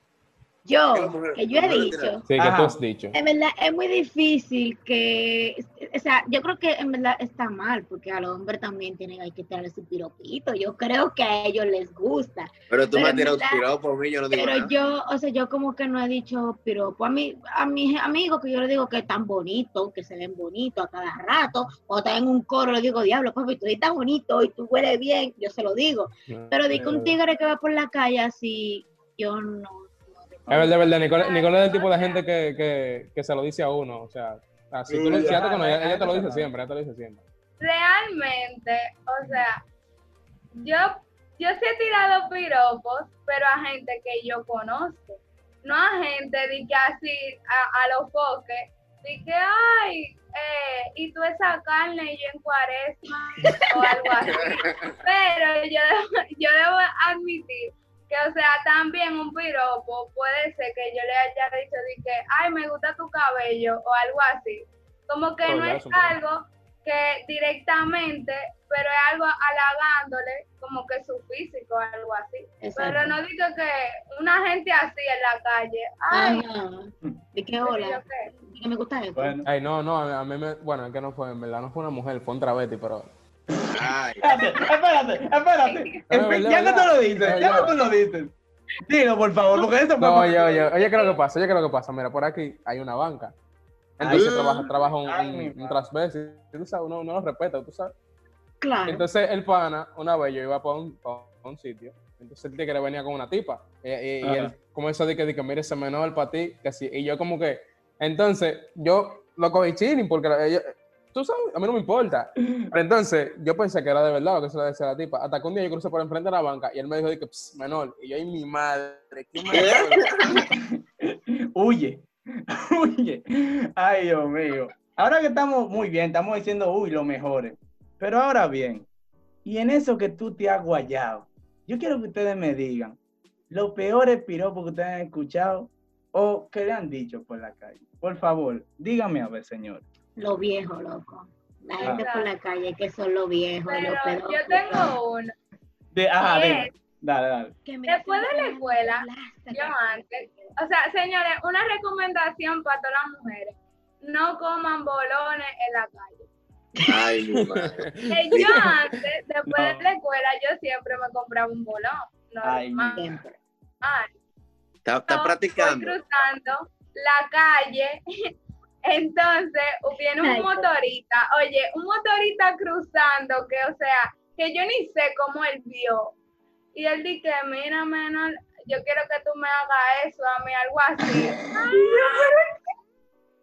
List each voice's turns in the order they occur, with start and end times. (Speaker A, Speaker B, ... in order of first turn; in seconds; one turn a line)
Speaker A: 0.6-2.2
Speaker B: 0.9-2.2
Speaker C: 2.3-3.1
Speaker D: 2.4-2.8
Speaker A: 3.1-13.6
Speaker B: 12.7-14.7
Speaker A: 14.3-30.6
Speaker C: 26.3-27.1
Speaker D: 30.5-30.7
Speaker C: 30.5-37.2
Speaker E: 31.2-32.2
Speaker B: 34.9-35.4
Speaker D: 35.0-36.5
Speaker E: 37.6-39.6
Speaker E: 40.6-76.4
Speaker A: 53.4-54.1
Speaker B: 54.2-55.0
Speaker C: 65.5-66.1
Speaker A: 72.6-73.2
Speaker A: 76.1-79.4
Speaker E: 77.6-78.3
Speaker D: 79.2-79.5
Speaker C: 79.5-83.1
Speaker B: 83.7-84.4
Speaker D: 84.2-88.3
Speaker E: 85.6-86.0
Speaker C: 86.1-87.8
Speaker D: 88.9-90.7
Speaker C: 90.0-93.3
Speaker E: 90.8-91.1
Speaker C: 94.0-97.9
Speaker B: 94.0-94.7
Speaker D: 94.0-94.3
Speaker D: 95.0-95.8
Speaker A: 98.6-99.1
Speaker C: 98.9-120.1
Speaker D: 104.2-104.5
Speaker B: 119.4-120.4
Speaker D: 120.4-123.2
Speaker D: 123.8-128.9
Speaker D: 129.4-133.0
Speaker D: 133.5-139.8
Speaker A: 140.2-144.9
Speaker D: 141.8-142.0
Speaker E: 141.8-142.3
Speaker E: 143.7-145.3
Speaker D: 145.9-147.6
Speaker E: 146.2-146.7
Speaker A: 147.6-150.5
Speaker E: 147.9-156.3
Speaker A: 156.8-157.1
Speaker B: 156.8-157.8
Speaker C: 157.8-158.6
Speaker E: 158.1-163.0
Speaker D: 159.4-159.9
Speaker D: 162.4-163.0
Speaker A: 162.9-163.3
Speaker E: 163.8-164.1
Speaker B: 164.8-166.0
Speaker E: 165.1-168.0
Speaker E: 168.9-176.1
Speaker A: 170.2-170.7
Speaker E: 176.7-182.3
Speaker D: 181.0-182.5